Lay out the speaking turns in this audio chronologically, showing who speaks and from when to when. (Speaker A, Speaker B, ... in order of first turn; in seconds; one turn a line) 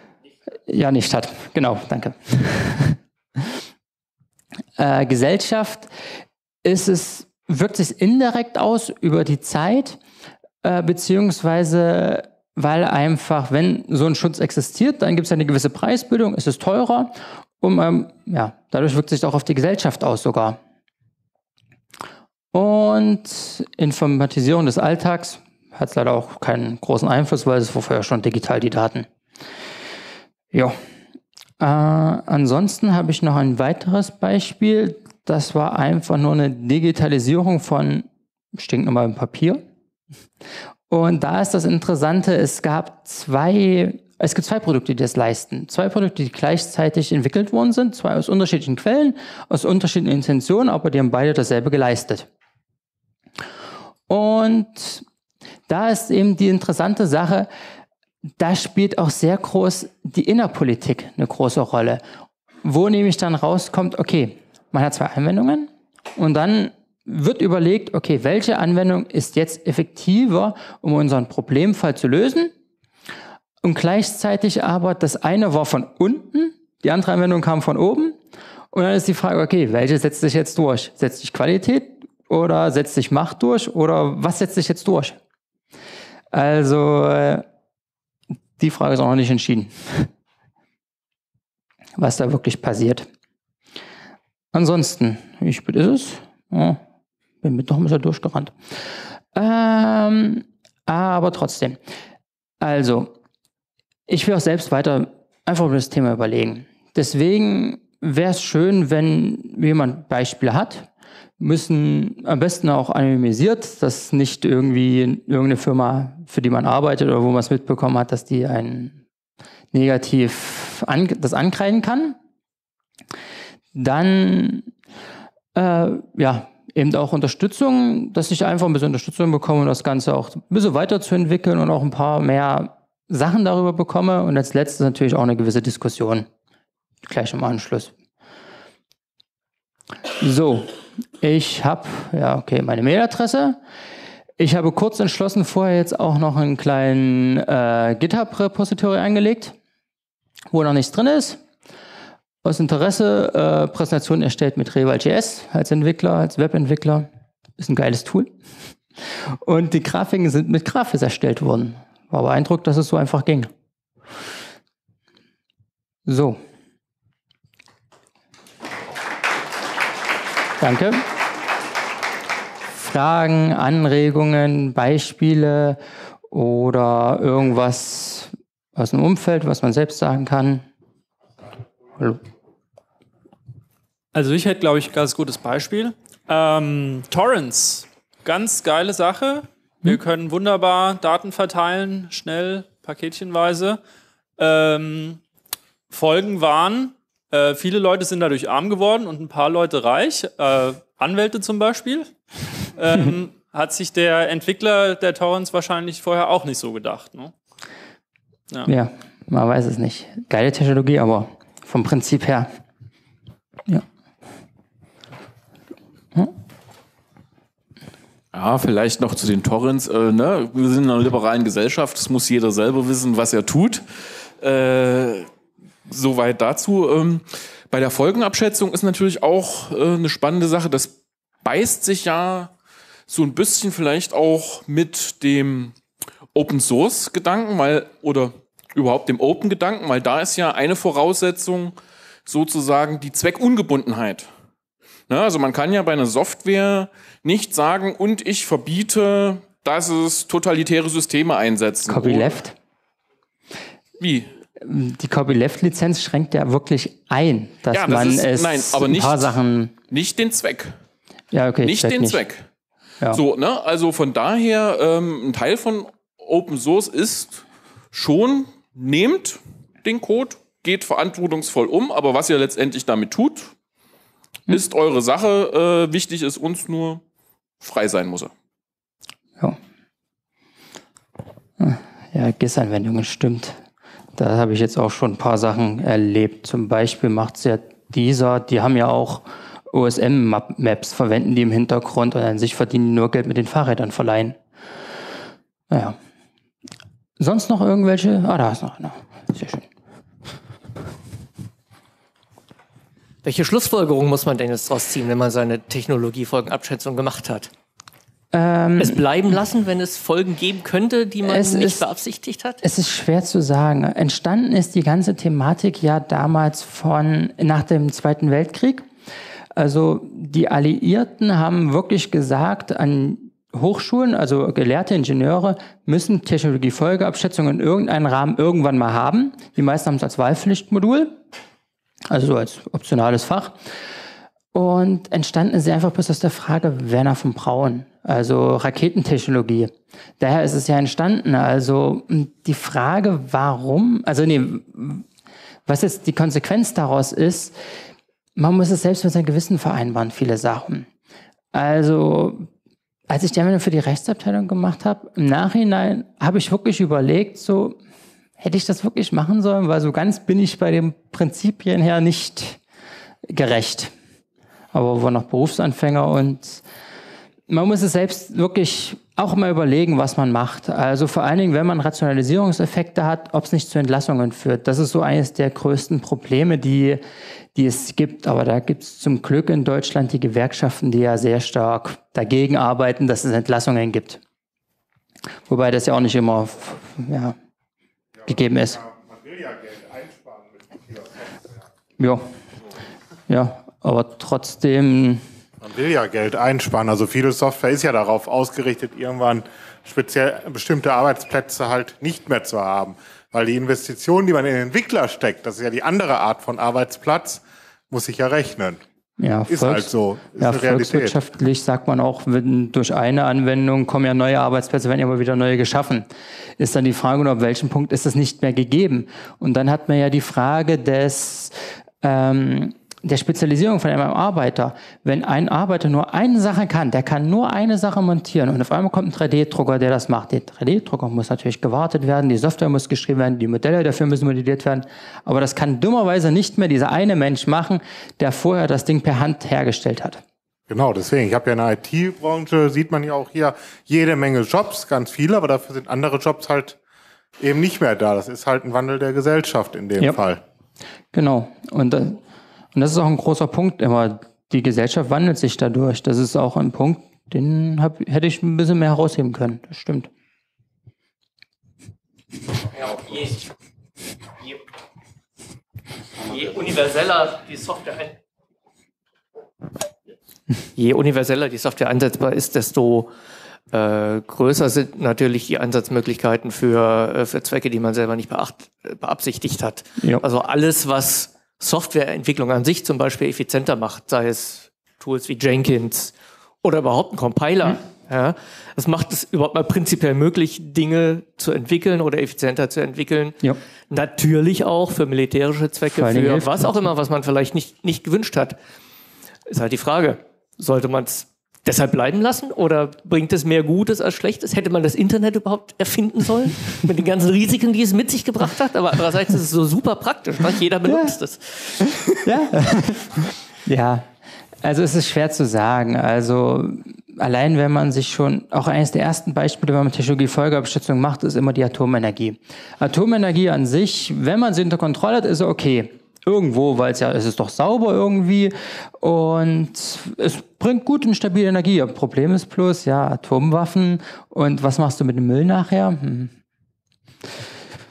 Speaker A: 0.7-3.5
Speaker A: 4.8-5.9
Speaker A: 6.6-10.0
Speaker A: 10.6-20.6
Speaker A: 22.5-29.1
Speaker A: 31.6-39.6
Speaker A: 40.9-52.3
Speaker A: 54.1-55.0
Speaker A: 55.7-57.5
Speaker A: 58.4-62.0
Speaker A: 62.6-72.5
Speaker A: 73.6-78.2
Speaker A: 78.7-85.2
Speaker A: 86.3-87.5
Speaker A: 88.6-90.1
Speaker A: 92.0-93.1
Speaker A: 94.5-96.8
Speaker A: 97.4-98.5
Speaker A: 99.3-101.8
Speaker A: 102.6-103.1
Speaker A: 104.1-119.0
Speaker A: 119.7-122.2
Speaker A: 123.8-124.7
Speaker A: 125.5-136.3
Speaker A: 137.0-137.9
Speaker A: 140.2-143.6
Speaker A: 144.4-149.6
Speaker A: 150.5-151.4
Speaker A: 152.4-158.3
Speaker A: 159.4-163.5
Speaker A: 166.1-166.4
Speaker A: 170.6-171.0
Speaker A: 172.7-175.8
Speaker A: 176.3-180.7
Speaker B: 184.1-193.8
Speaker B: 194.4-195.2
Speaker B: 195.9-202.1
Speaker B: 202.8-207.3
Speaker A: 208.7-212.5
Speaker C: 218.3-225.3
Speaker C: 225.9-232.5
Speaker C: 233.1-235.7
Speaker C: 236.3-241.8
Speaker C: 242.3-244.3
Speaker C: 245.1-252.4
Speaker A: 251.9-252.6
Speaker C: 254.0-254.3
Speaker A: 254.6-259.7
Speaker C: 257.7-259.4
Speaker C: 259.9-260.7
Speaker A: 261.3-262.2
Speaker C: 261.6-262.4
Speaker C: 263.1-273.5
Speaker C: 274.5-277.0
Speaker C: 277.6-278.3
Speaker A: 281.6-283.6
Speaker A: 284.2-294.4
Speaker A: 295.7-296.0
Speaker A: 297.2-299.7
Speaker D: 303.2-307.5
Speaker A: 308.3-309.0
Speaker D: 308.8-312.6
Speaker A: 311.2-311.9
Speaker A: 312.6-318.9
Speaker A: 319.6-331.2
Speaker A: 332.1-333.6
Speaker A: 334.5-345.1
Speaker A: 345.7-347.6
Speaker A: 348.4-350.9
Speaker A: 351.5-352.5
Speaker A: 353.1-357.8
Speaker A: 358.4-362.6
Speaker A: 363.3-363.9
Speaker A: 364.7-366.6
Speaker A: 367.5-377.0
Speaker A: 377.6-384.2
Speaker A: 385.5-387.4
Speaker E: 388.2-391.5
Speaker A: 388.3-388.8
Speaker A: 392.0-392.3
Speaker A: 393.3-395.2
Speaker E: 395.6-408.8
Speaker A: 409.2-416.1
Speaker E: 409.5-411.2
Speaker A: 416.6-440.2
Speaker E: 440.7-446.8
Speaker E: 447.4-450.4
Speaker A: 451.1-452.2
Speaker A: 452.7-460.1
Speaker D: 462.7-463.5
Speaker D: 466.2-468.2
Speaker D: 470.8-473.1
Speaker D: 473.7-498.6
Speaker A: 495.9-496.8
Speaker D: 499.5-512.2
Speaker A: 510.9-511.2
Speaker A: 511.8-514.1
Speaker A: 514.6-536.3